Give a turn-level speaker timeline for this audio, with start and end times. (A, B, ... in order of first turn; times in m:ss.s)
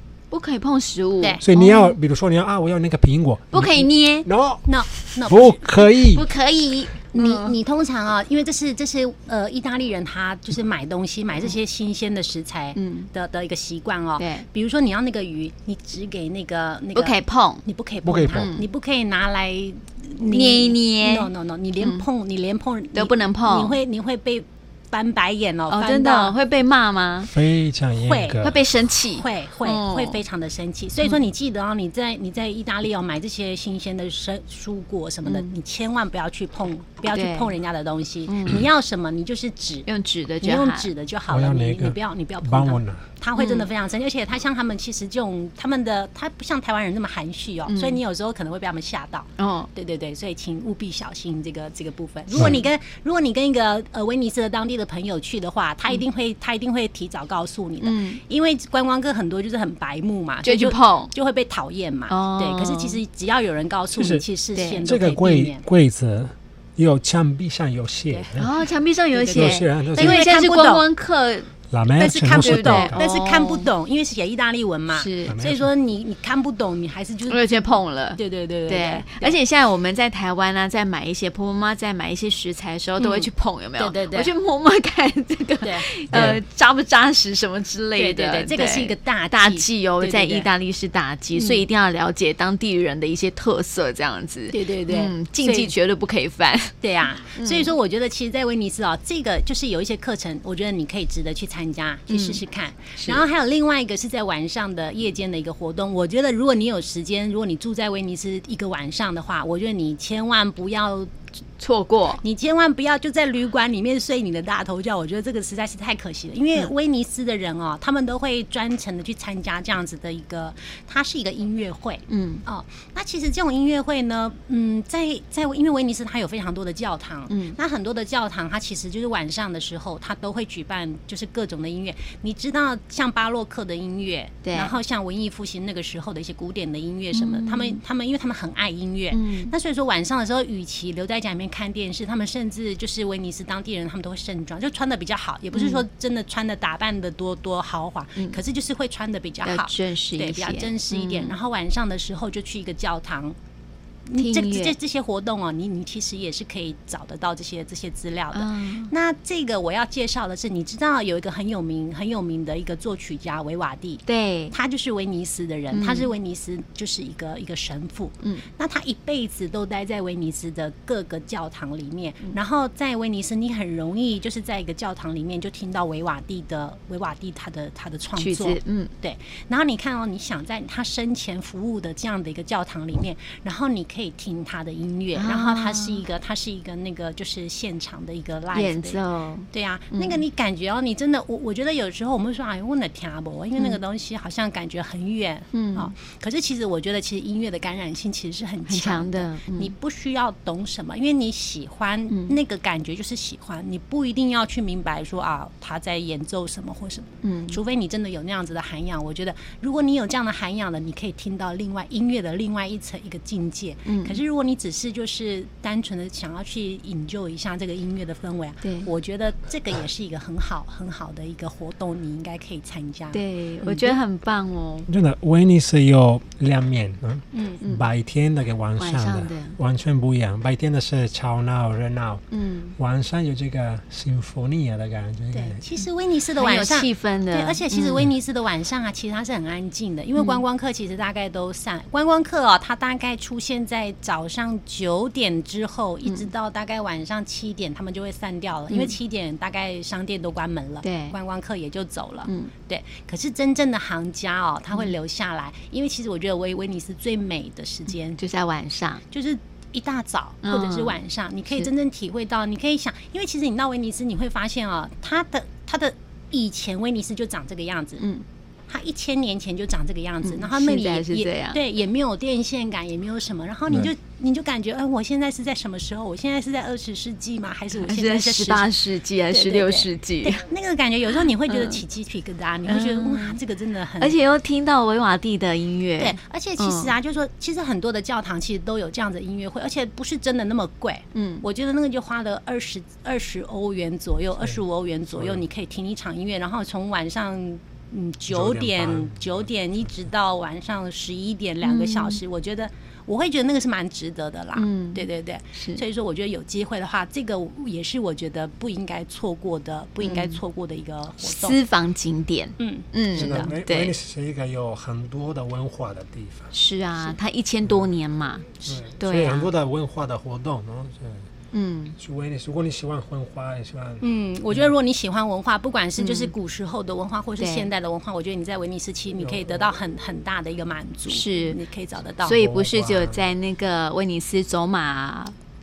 0:00.3-0:01.9 A
0:01.4-0:06.2 B
0:03.5-0:04.3 A
0:04.7-0:05.7 C
0:06.1-0:07.5 A
0:07.1-0:26.3 C
0:12.7-0:13.1 A
0:14.2-0:14.4 A
0:16.9-0:17.6 A
0:18.0-0:18.5 B
0:18.3-0:18.7 A
0:20.2-0:22.0 A
0:22.9-0:23.8 A
0:25.7-0:27.3 A
0:27.2-0:28.6 B
0:28.0-0:28.5 C
0:28.4-0:30.2 A
0:29.1-0:39.9 C
0:35.2-0:35.5 A
0:37.1-0:37.5 A
0:38.3-0:38.6 A
0:39.8-0:40.9 A
0:40.4-1:05.6 C
0:41.3-0:43.0 B
0:43.4-0:43.7 A
0:47.7-0:48.0 A
0:49.4-0:49.7 A
0:52.4-0:52.6 A
0:57.8-0:58.2 A
1:00.4-1:01.1 A
1:02.1-1:03.0 A
1:03.9-1:04.2 B
1:04.5-1:04.8 A
1:04.8-1:08.5 B
1:08.1-1:08.4 C
1:08.4-1:11.5 A
1:09.2-1:10.8 C
1:09.3-1:10.2 B
1:11.7-1:13.0 B
1:12.0-1:19.4 C
1:12.3-1:13.7 A
1:14.9-1:15.4 A
1:15.3-1:15.7 B
1:17.3-1:36.8 A
1:23.0-1:24.3 C
1:25.6-1:25.9 C
1:26.1-1:26.4 B
1:28.0-1:30.5 C
1:31.3-1:31.6 C
1:34.5-1:35.7 C
1:36.8-1:51.1 C
1:37.3-1:37.7 A
1:42.1-1:42.4 A
1:43.0-1:43.2 A
1:51.6-1:52.2 A
1:52.2-2:33.4 C
2:02.1-2:02.4 A
2:07.3-2:07.6 A
2:14.4-2:14.7 A
2:17.1-2:17.8 A
2:19.1-2:19.5 A
2:25.5-2:25.8 A
2:29.4-2:31.3 A
2:34.1-3:09.0 C
2:34.2-2:34.7 A
2:38.3-2:38.9 A
2:44.0-2:44.6 A
2:45.7-2:46.1 A
2:58.2-2:58.9 A
3:05.1-3:06.0 A
3:08.5-3:10.2 A
3:09.5-3:44.0 C
3:15.5-3:15.9 A
3:18.7-3:19.7 A
3:22.1-3:22.4 A
3:27.2-3:27.6 A
3:33.8-3:34.2 A
3:43.1-3:44.9 A
3:44.9-3:52.2 B
3:47.3-3:47.6 C
3:48.8-3:49.6 A
3:52.3-3:52.7 A
3:52.8-3:55.6 B
3:55.3-4:18.2 C
3:56.4-3:58.0 A
4:00.2-4:00.4 A
4:10.8-4:11.2 A
4:12.2-4:12.5 A
4:18.2-4:19.0 A
4:19.1-4:28.0 C
4:20.4-4:21.0 A
4:28.0-4:28.2 A
4:28.7-4:38.7 C
4:30.2-4:31.6 A
4:37.8-4:40.4 A
4:39.3-4:44.2 C
4:41.5-4:41.8 A
4:42.7-4:43.4 A
4:44.0-4:46.9 A
4:46.0-5:11.6 C
4:51.1-4:51.4 A
4:55.1-4:55.4 B
4:58.3-4:59.5 B
5:01.6-5:02.2 A
5:04.6-5:05.8 A
5:10.0-5:10.4 A
5:11.2-5:13.9 A
5:12.6-5:13.5 C
5:13.1-5:16.5 B
5:16.5-5:19.5 A
5:18.5-5:21.2 B
5:21.5-5:22.0 A
5:22.0-5:24.7 B
5:24.0-5:32.4 C
5:26.0-5:26.3 A
5:27.4-5:27.7 A
5:29.2-5:29.7 B
5:31.1-5:31.6 A
5:32.2-5:35.3 A
5:32.3-5:33.3 B